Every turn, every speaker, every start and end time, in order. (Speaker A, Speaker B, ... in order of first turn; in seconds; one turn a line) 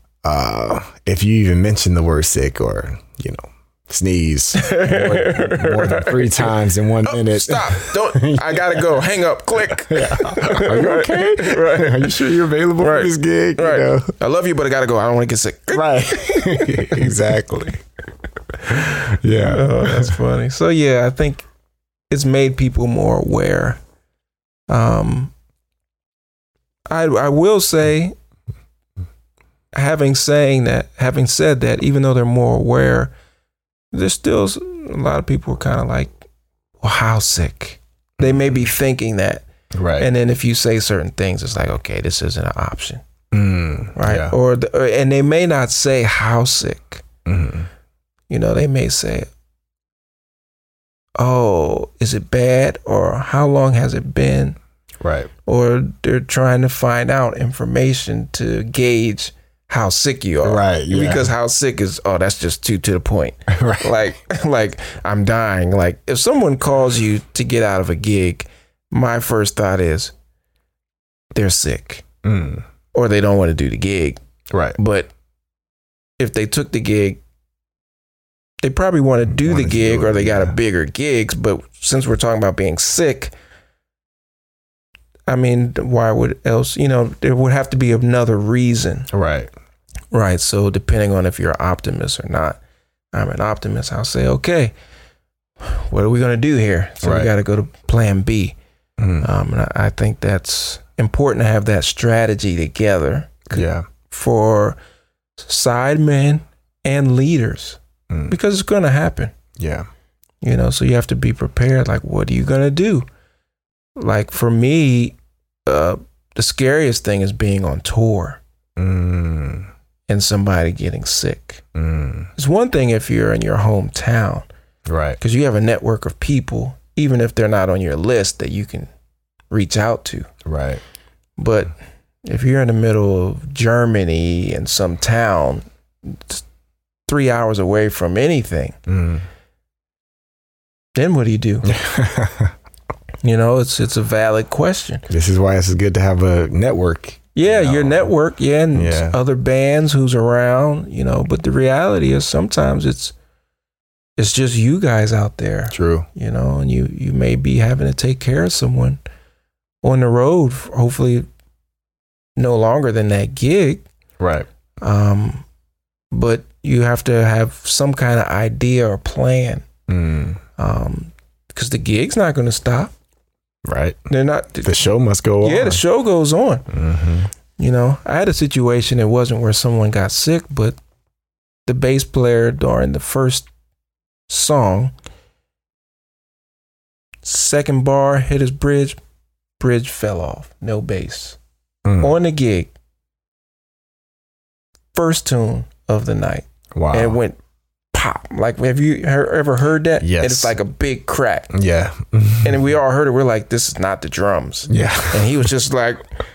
Speaker A: 0.2-9.1
Speaker B: 4.6-12.2
Speaker A: 9.8-14.1
Speaker B: 12.8-17.1
Speaker A: 15.7-17.8
Speaker A: 18.7-20.2
Speaker B: 19.4-21.5
Speaker B: 22.1-23.8
Speaker B: 24.7-25.3
Speaker B: 26.9-28.1
Speaker B: 29.7-33.1
Speaker B: 33.9-36.2
Speaker B: 36.8-39.5
Speaker A: 38.2-38.6
Speaker A: 39.7-40.1
Speaker B: 40.0-43.0
Speaker A: 43.3-44.4
Speaker B: 44.0-47.0
Speaker A: 47.3-47.7
Speaker B: 48.3-49.3
Speaker B: 51.2-54.6
Speaker A: 55.0-55.3
Speaker B: 55.5-70.1
Speaker A: 60.4-61.3
Speaker A: 63.5-64.0
Speaker B: 71.3-72.0
Speaker A: 72.2-72.7
Speaker B: 72.9-74.2
Speaker A: 74.5-74.8
Speaker B: 74.8-75.1
Speaker B: 76.2-77.2
Speaker B: 78.6-83.3
Speaker A: 79.3-80.6
Speaker B: 85.3-89.1
Speaker A: 89.1-89.5
Speaker B: 90.1-92.6
Speaker B: 93.1-94.7
Speaker B: 95.6-98.6
Speaker A: 97.0-97.3
Speaker A: 99.0-99.3
Speaker B: 99.2-104.8
Speaker A: 103.5-103.9
Speaker B: 105.4-109.3
Speaker A: 108.1-108.3
Speaker A: 109.6-109.9
Speaker B: 110.4-113.1
Speaker B: 114.0-118.4
Speaker A: 118.8-119.7
Speaker B: 120.1-121.6
Speaker A: 121.8-122.3
Speaker B: 122.4-124.5
Speaker A: 124.9-125.2
Speaker B: 125.2-128.9
Speaker B: 129.5-130.3
Speaker A: 130.4-130.8
Speaker B: 131.4-131.7
Speaker B: 132.2-136.4
Speaker B: 137.1-138.8
Speaker A: 138.9-139.3
Speaker B: 141.0-141.7
Speaker A: 141.6-142.5
Speaker B: 143.2-145.0
Speaker A: 145.1-148.1
Speaker B: 147.3-153.1
Speaker A: 148.7-149.2
Speaker B: 154.2-159.0
Speaker A: 155.7-156.1
Speaker B: 159.8-161.3
Speaker B: 162.4-163.9
Speaker A: 164.2-164.5
Speaker B: 164.8-165.5
Speaker B: 166.1-169.7
Speaker A: 169.9-170.4
Speaker B: 170.6-172.9
Speaker A: 173.7-174.0
Speaker B: 174.1-174.7
Speaker A: 174.6-175.8
Speaker B: 175.4-176.7
Speaker A: 176.7-177.3
Speaker B: 177.6-180.8
Speaker B: 181.7-183.5
Speaker B: 184.3-184.9
Speaker B: 187.2-189.0
Speaker B: 189.6-191.4
Speaker A: 191.8-192.1
Speaker B: 192.0-192.7
Speaker B: 194.9-197.4
Speaker A: 196.7-197.2
Speaker B: 197.9-201.5
Speaker A: 200.0-200.6
Speaker A: 201.5-202.6
Speaker B: 202.4-206.0
Speaker A: 204.7-205.3